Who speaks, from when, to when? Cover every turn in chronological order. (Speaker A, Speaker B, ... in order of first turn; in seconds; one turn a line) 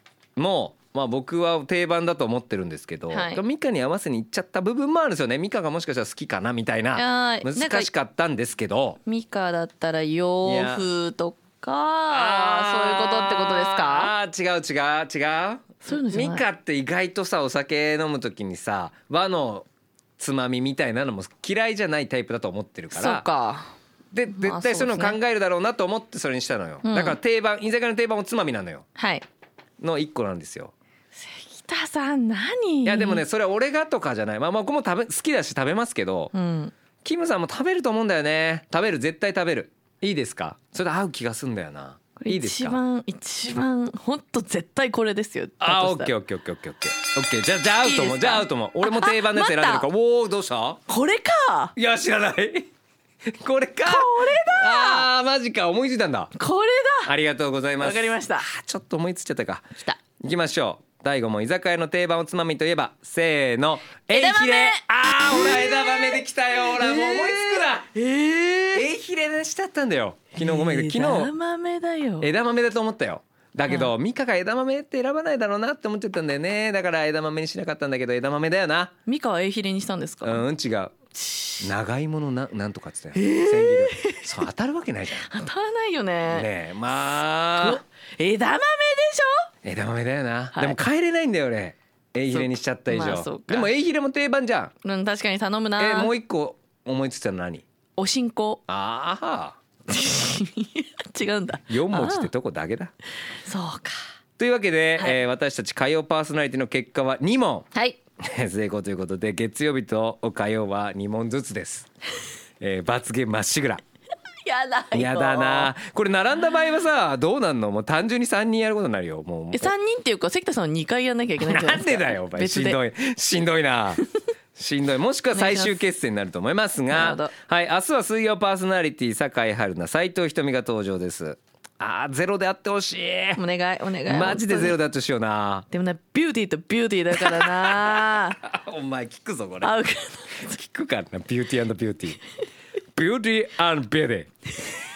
Speaker A: 0.4-9.0
Speaker B: 3.1-3.4
Speaker B: 7.0-7.9
Speaker B: 9.1-14.1
Speaker A: 10.4-10.8
Speaker A: 12.1-19.7
Speaker B: 15.8-16.4
Speaker A: 20.2-23.3
Speaker B: 22.9-23.7
Speaker A: 24.1-28.9
Speaker B: 24.3-25.2
Speaker B: 26.8-27.2
Speaker B: 28.9-29.2
Speaker A: 29.8-30.7
Speaker B: 31.1-33.2
Speaker A: 32.9-36.3
Speaker B: 36.3-36.7
Speaker A: 37.0-42.8
Speaker B: 42.2-46.1
Speaker A: 45.6-50.8
Speaker B: 47.8-49.9
Speaker B: 50.9-51.7
Speaker A: 51.8-52.7
Speaker A: 53.3-56.3
Speaker B: 53.9-55.1
Speaker B: 56.4-57.1
Speaker A: 57.0-59.7
Speaker B: 57.8-58.5
Speaker A: 60.2-67.9
Speaker B: 64.1-68.8
Speaker A: 68.7-71.3
Speaker B: 70.4-72.3
Speaker A: 72.2-78.9
Speaker B: 73.7-73.9
Speaker B: 79.1-80.5
Speaker A: 80.2-81.0
Speaker B: 81.2-81.7
Speaker A: 81.6-85.3
Speaker B: 83.1-84.3
Speaker B: 85.2-86.5
Speaker A: 86.2-87.8
Speaker B: 87.6-89.5
Speaker A: 89.6-94.7
Speaker B: 92.3-93.7
Speaker B: 94.8-96.1
Speaker A: 95.8-97.6
Speaker B: 98.0-98.6
Speaker A: 98.7-99.6
Speaker B: 99.9-102.3
Speaker A: 101.7-102.9
Speaker B: 103.4-104.0
Speaker A: 104.4-107.7
Speaker A: 108.2-111.9
Speaker A: 112.6-113.8
Speaker B: 114.5-115.7
Speaker A: 114.9-119.7
Speaker B: 119.5-122.8
Speaker A: 121.4-124.0
Speaker A: 124.6-133.4
Speaker B: 125.3-125.8
Speaker B: 126.9-127.3
Speaker B: 133.4-134.8
Speaker A: 134.1-135.7
Speaker B: 135.7-138.4
Speaker A: 137.2-139.8
Speaker B: 139.6-140.5
Speaker A: 140.4-142.2
Speaker A: 142.9-144.3